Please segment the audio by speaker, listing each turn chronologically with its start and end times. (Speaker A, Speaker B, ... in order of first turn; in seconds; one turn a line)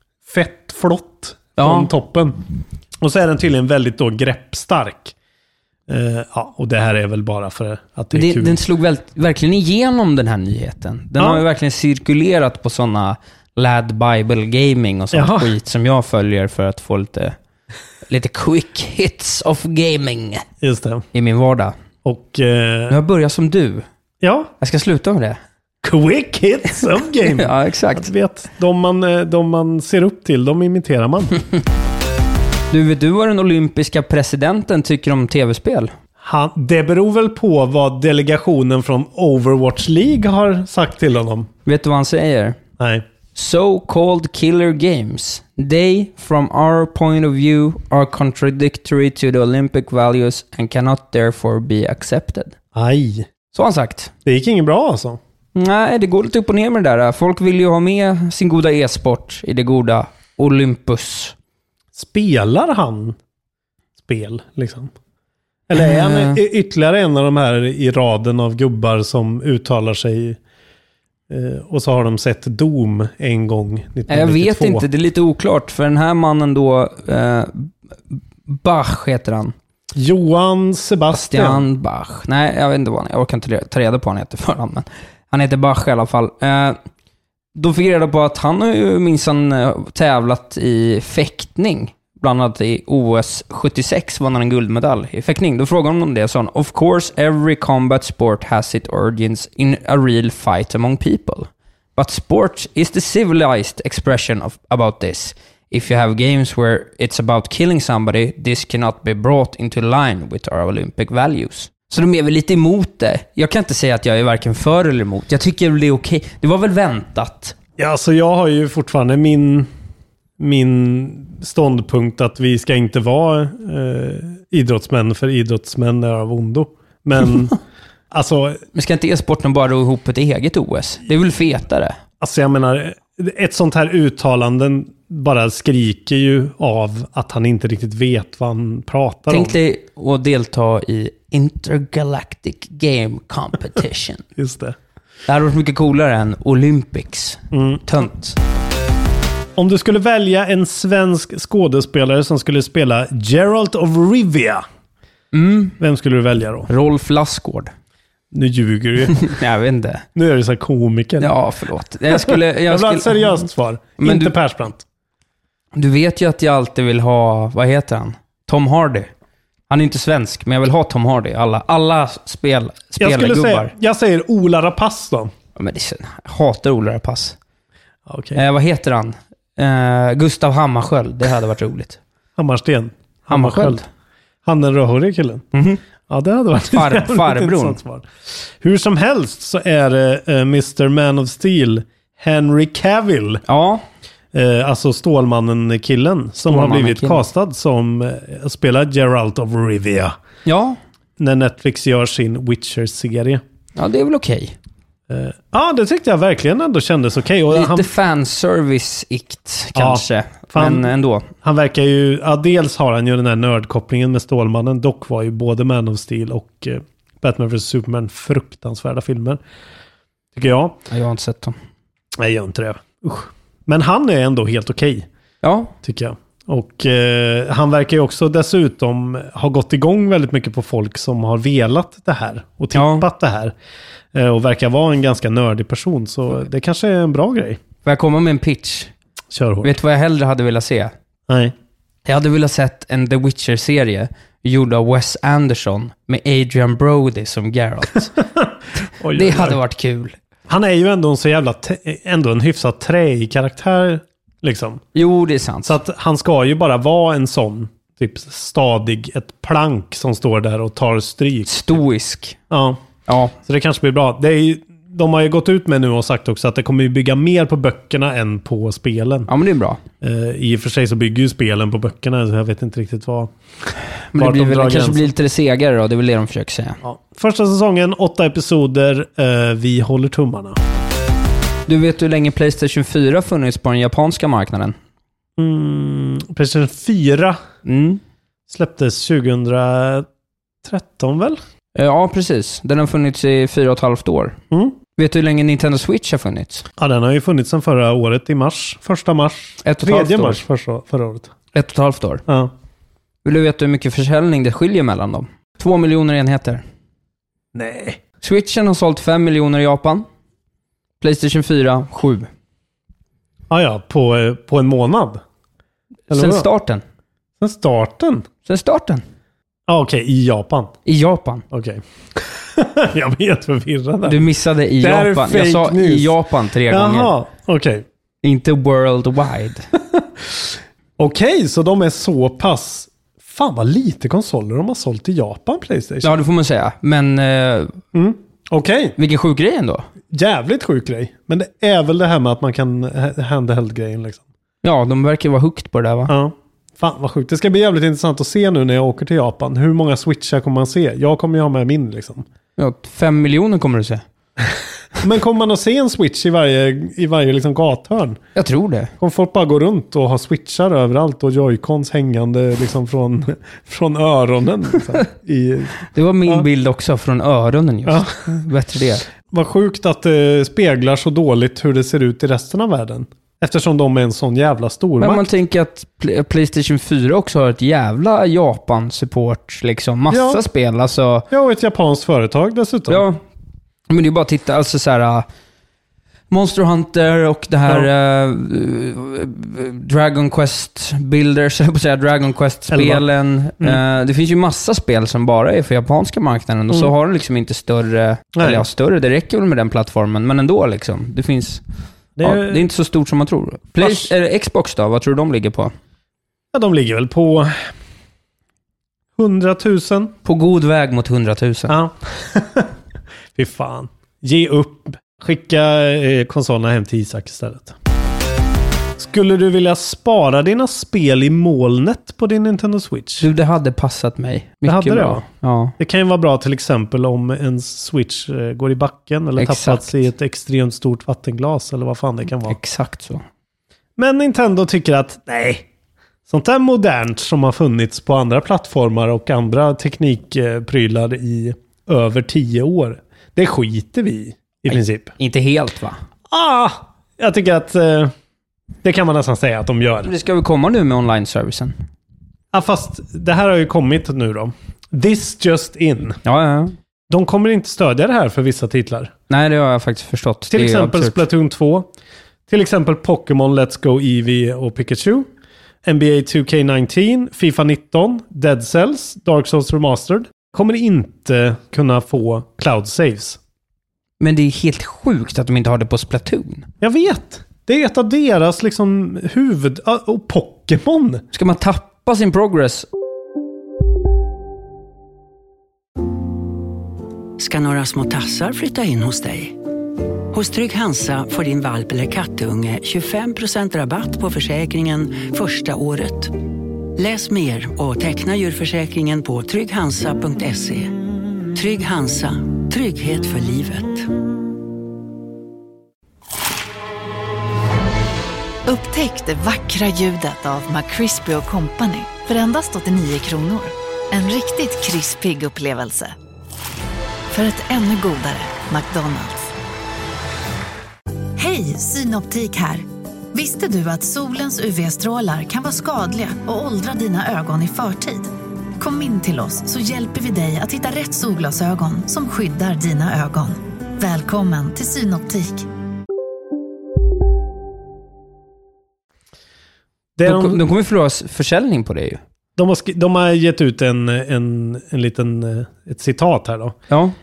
Speaker A: 0.2-2.4
Speaker B: 1.6-1.9
Speaker A: 3.0-5.1
Speaker A: 5.9-8.6
Speaker B: 8.1-17.4
Speaker A: 11.2-11.4
Speaker A: 15.1-15.5
Speaker B: 18.1-20.4
Speaker A: 20.6-21.0
Speaker B: 21.1-21.7
Speaker A: 22.0-23.0
Speaker B: 22.9-23.9
Speaker A: 24.2-24.5
Speaker B: 24.6-25.4
Speaker A: 25.8-31.4
Speaker B: 27.3-28.1
Speaker B: 32.7-35.9
Speaker A: 36.2-41.5
Speaker B: 41.6-42.6
Speaker A: 42.8-43.0
Speaker B: 43.4-52.5
Speaker A: 52.7-53.3
Speaker B: 53.5-54.1
Speaker A: 54.2-55.2
Speaker B: 55.5-61.3
Speaker A: 61.9-63.2
Speaker A: 64.0-64.9
Speaker A: 65.7-70.4
Speaker B: 65.7-66.4
Speaker A: 71.3-74.9
Speaker B: 74.1-79.5
Speaker A: 79.9-81.7
Speaker B: 81.1-86.8
Speaker B: 87.6-117.5
Speaker A: 117.8-119.7
Speaker A: 120.4-127.6
Speaker A: 128.1-128.6
Speaker B: 128.7-131.9
Speaker A: 132.2-139.6
Speaker B: 139.3-144.2
Speaker A: 144.4-144.8
Speaker B: 145.3-148.4
Speaker A: 147.5-147.9
Speaker A: 149.6-154.6
Speaker B: 155.3-155.8
Speaker A: 155.8-156.7
Speaker B: 156.7-157.7
Speaker A: 158.3-159.2
Speaker B: 159.1-160.1
Speaker A: 160.1-161.3
Speaker B: 161.2-163.4
Speaker A: 162.1-164.8
Speaker B: 164.0-164.3
Speaker B: 165.7-169.1
Speaker B: 169.7-173.7
Speaker A: 173.0-175.3
Speaker B: 175.6-177.4
Speaker A: 178.1-178.4
Speaker B: 178.3-182.0
Speaker A: 182.4-183.8
Speaker B: 183.3-183.8
Speaker A: 184.4-185.4
Speaker B: 185.5-185.8
Speaker A: 186.1-193.4
Speaker B: 186.7-187.8
Speaker B: 193.5-193.8
Speaker A: 194.3-200.1
Speaker B: 196.4-197.2
Speaker B: 200.4-200.8
Speaker A: 201.2-203.4
Speaker B: 203.8-204.6
Speaker A: 205.1-207.9
Speaker B: 207.5-211.3
Speaker A: 209.7-219.4
Speaker A: 220.3-220.8
Speaker B: 220.9-221.6
Speaker A: 222.2-225.1
Speaker B: 225.4-225.7
Speaker A: 225.8-233.5
Speaker B: 232.7-233.1
Speaker A: 234.1-237.6
Speaker B: 237.8-238.9
Speaker A: 239.3-239.7
Speaker B: 239.6-240.9
Speaker A: 241.3-241.5
Speaker B: 242.1-248.2
Speaker A: 249.0-249.6
Speaker B: 249.1-250.1
Speaker A: 250.5-254.8
Speaker B: 254.9-255.8
Speaker A: 255.6-261.6
Speaker B: 261.5-262.4
Speaker A: 262.5-262.8
Speaker B: 263.1-263.4
Speaker A: 263.4-269.3
Speaker B: 269.3-269.8
Speaker A: 270.0-273.3
Speaker B: 274.1-276.8
Speaker A: 274.1-275.1
Speaker A: 276.8-280.6
Speaker B: 281.7-284.8
Speaker A: 285.4-287.4
Speaker B: 287.6-288.0
Speaker A: 288.5-290.1
Speaker A: 290.6-291.4
Speaker B: 291.7-294.4
Speaker A: 294.5-294.8
Speaker B: 295.0-296.6
Speaker A: 296.8-301.3
Speaker B: 299.6-300.4
Speaker B: 301.5-302.2
Speaker A: 302.3-302.5
Speaker B: 303.2-306.6
Speaker A: 307.5-308.0
Speaker B: 308.2-310.1
Speaker B: 311.0-312.3
Speaker A: 313.5-315.2
Speaker A: 316.1-316.5
Speaker B: 316.1-316.8
Speaker A: 317.4-318.2
Speaker B: 318.4-319.0
Speaker A: 319.7-320.7
Speaker B: 320.9-321.4
Speaker A: 321.5-324.2
Speaker B: 324.1-327.1
Speaker A: 324.8-326.1
Speaker A: 326.7-327.9
Speaker B: 328.2-329.6
Speaker A: 329.9-336.2
Speaker B: 336.0-337.8
Speaker A: 337.9-338.9
Speaker B: 339.0-339.9
Speaker A: 340.1-344.2
Speaker B: 344.6-346.1
Speaker A: 346.1-352.2
Speaker B: 352.6-354.0
Speaker A: 355.0-358.2
Speaker B: 358.4-358.9
Speaker A: 359.0-366.4
Speaker B: 365.9-369.1
Speaker A: 367.9-368.2
Speaker A: 369.2-375.3
Speaker B: 375.0-381.2
Speaker A: 380.1-380.4
Speaker A: 381.3-383.1
Speaker B: 382.9-383.2
Speaker B: 383.9-385.2
Speaker B: 386.3-401.6
Speaker A: 392.7-393.1
Speaker A: 398.4-398.6
Speaker A: 402.1-402.7
Speaker B: 402.2-405.7
Speaker A: 403.8-404.1
Speaker A: 406.5-407.6
Speaker A: 409.2-410.1
Speaker B: 410.2-411.7
Speaker A: 411.7-412.7
Speaker A: 413.4-417.8
Speaker A: 419.0-423.3
Speaker B: 423.2-425.7
Speaker A: 424.6-425.2
Speaker A: 425.8-432.6
Speaker B: 429.4-430.1
Speaker B: 432.4-433.2
Speaker A: 434.0-435.7
Speaker A: 436.3-445.1
Speaker B: 444.7-446.0
Speaker A: 446.3-448.1
Speaker A: 448.8-450.1
Speaker B: 450.1-451.7
Speaker A: 452.5-456.2
Speaker B: 456.2-456.7
Speaker A: 457.1-459.1
Speaker B: 459.3-461.3
Speaker A: 460.5-461.9
Speaker A: 462.5-465.3
Speaker A: 465.8-473.4
Speaker B: 474.2-476.7
Speaker A: 476.8-481.2
Speaker B: 481.3-482.9
Speaker C: 487.4-489.6
Speaker C: 490.3-496.4
Speaker C: 496.9-500.9
Speaker C: 501.5-504.1
Speaker D: 508.6-516.1
Speaker D: 517.3-519.5
Speaker D: 521.4-535.6
Speaker A: 540.1-540.6
Speaker B: 540.2-542.2
Speaker A: 542.6-546.8